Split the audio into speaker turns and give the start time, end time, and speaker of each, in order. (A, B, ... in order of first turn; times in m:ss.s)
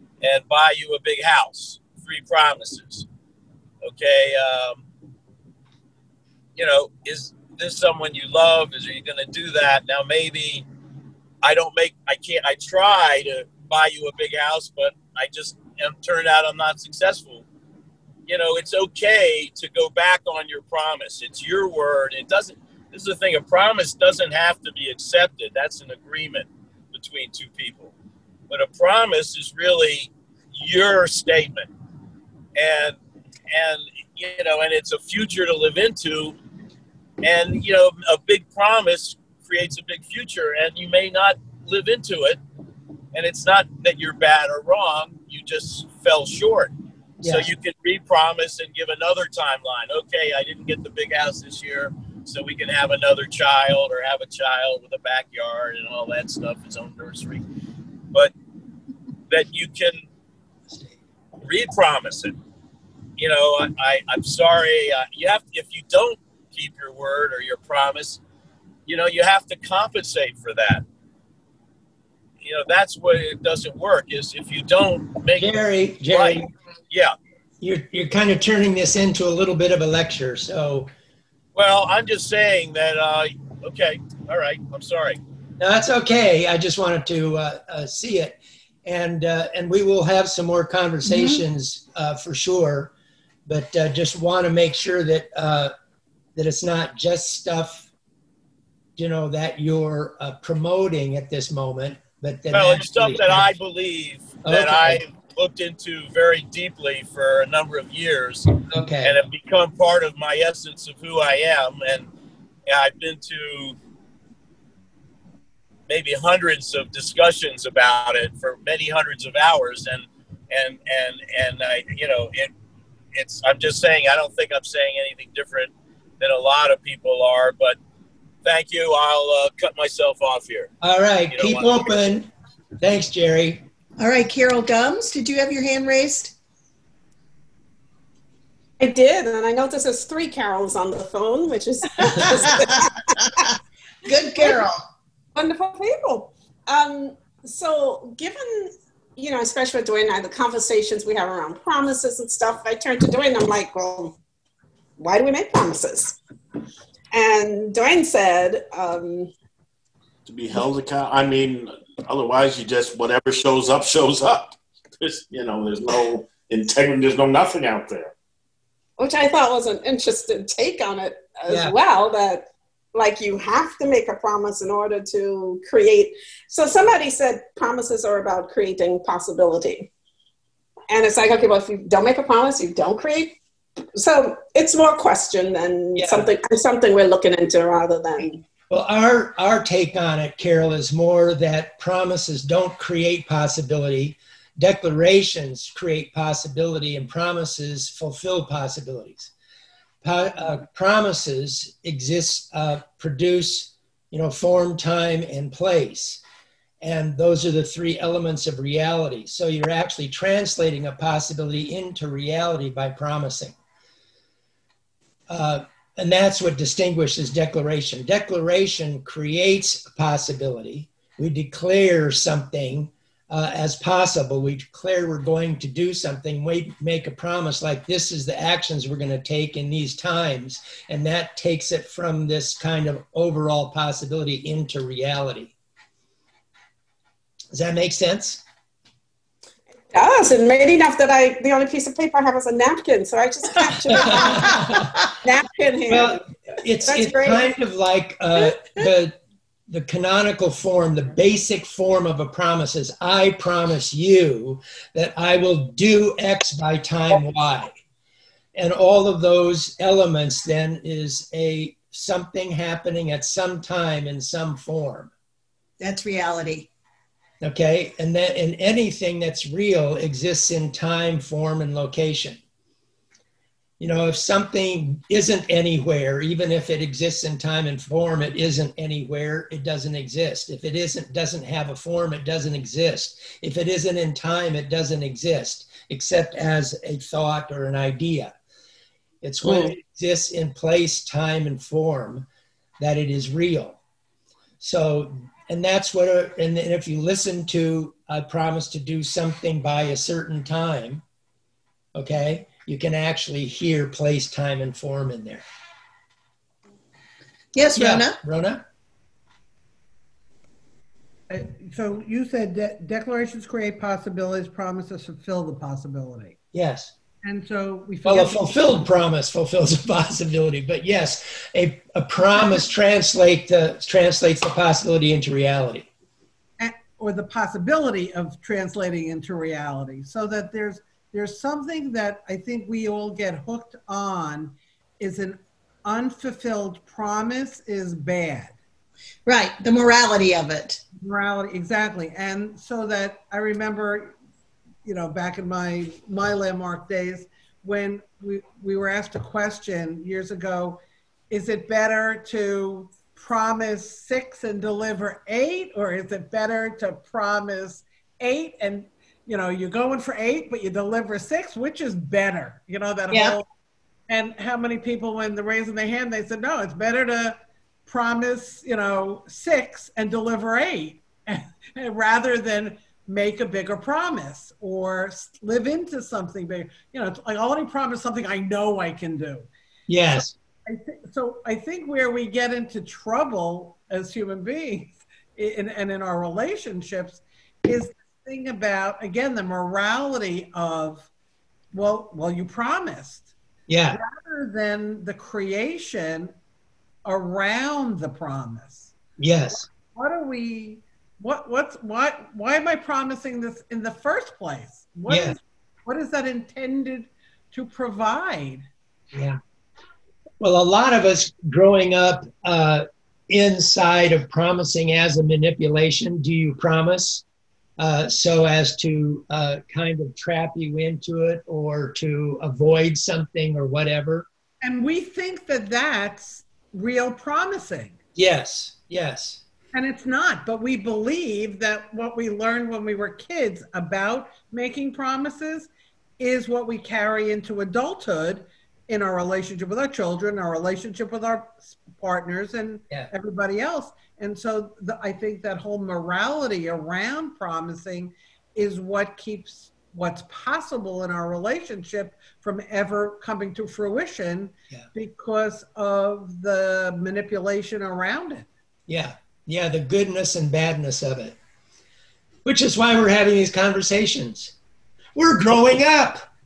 0:00.2-0:03.1 A
0:03.8-0:04.8 A
0:06.6-0:10.6 A
0:11.4-0:17.4 A
0:18.3-0:27.9 A
0:28.5-0:31.7 A
0:32.6-0:33.0 A
0:33.5-0:36.4 A
0:37.2-0:42.4 A
0:43.1-0:46.7 A
0:47.2-0:47.5 B
0:47.2-0:57.4 A
0:59.3-1:00.0 A
1:01.4-1:02.4 A
1:03.2-1:08.2 A
1:08.9-1:10.8 A
1:12.4-1:17.1 A
1:15.4-1:16.5 B
1:17.6-1:20.9 B
1:21.6-1:25.2 A
1:25.6-1:32.9 B
1:31.0-1:31.4 C
1:33.5-1:35.7 B
1:36.4-1:37.9 B
1:39.0-1:43.5 B
1:42.5-1:48.5 A
1:44.4-1:45.0 B
1:48.7-1:49.2 B
1:49.0-1:52.1 A
1:52.7-1:53.8 A
1:55.9-2:02.5 A
2:03.2-2:07.8 A
2:08.4-2:10.7 A
2:10.8-2:12.3 B
2:11.3-2:11.9 A
2:12.8-2:13.6 B
2:14.0-2:16.3 C
2:18.8-2:22.9 D
2:24.1-2:24.8 C
2:25.4-2:34.2 D
2:35.0-2:36.2 D
2:37.1-2:39.3 D
2:40.2-2:48.1 E
2:49.0-2:59.9 D
3:00.9-3:03.4 D
3:03.9-3:08.4 D
3:06.0-3:06.3 B
3:08.7-3:19.3 B
3:20.0-3:26.2 B
3:26.8-3:33.6 B
3:35.3-3:55.5 B
3:57.5-3:58.4 B
3:59.9-4:04.7 D
4:03.9-4:04.9 B
4:05.2-4:06.2 D
4:05.9-4:09.2 B
4:06.8-4:07.5 D
4:09.7-4:17.7 B
4:18.6-4:25.1 B
4:25.8-4:26.7 C
4:27.4-4:32.4 B
4:33.8-4:48.3 B
4:49.2-4:52.3 B
4:52.8-4:53.8 B
4:54.6-5:01.0 B
5:02.0-5:05.4 B
5:07.6-5:08.2 C
5:07.8-5:08.6 B
5:11.3-5:16.4 F
5:16.5-5:16.9 B
5:17.2-5:18.7 F
5:18.0-5:25.9 B
5:26.6-5:38.6 F
5:39.3-5:40.8 C
5:41.0-5:44.2 F
5:44.8-6:03.5 F
6:03.1-6:03.4 C
6:04.1-6:19.5 F
6:19.9-6:20.3 B
6:20.1-6:31.1 F
6:31.7-6:33.3 F
6:33.7-6:34.0 B
6:33.9-6:36.3 F
6:37.0-6:38.9 F
6:39.2-6:39.7 B
6:39.8-6:48.6 F
6:45.1-6:45.4 B
6:49.1-6:49.4 B
6:50.4-6:57.2 B
6:57.8-7:04.3 B
7:04.6-7:08.0 F
7:08.2-7:09.4 B
7:09.7-7:38.5 F
7:38.9-7:41.4 B
7:42.4-7:44.5 B
7:45.2-7:46.2 B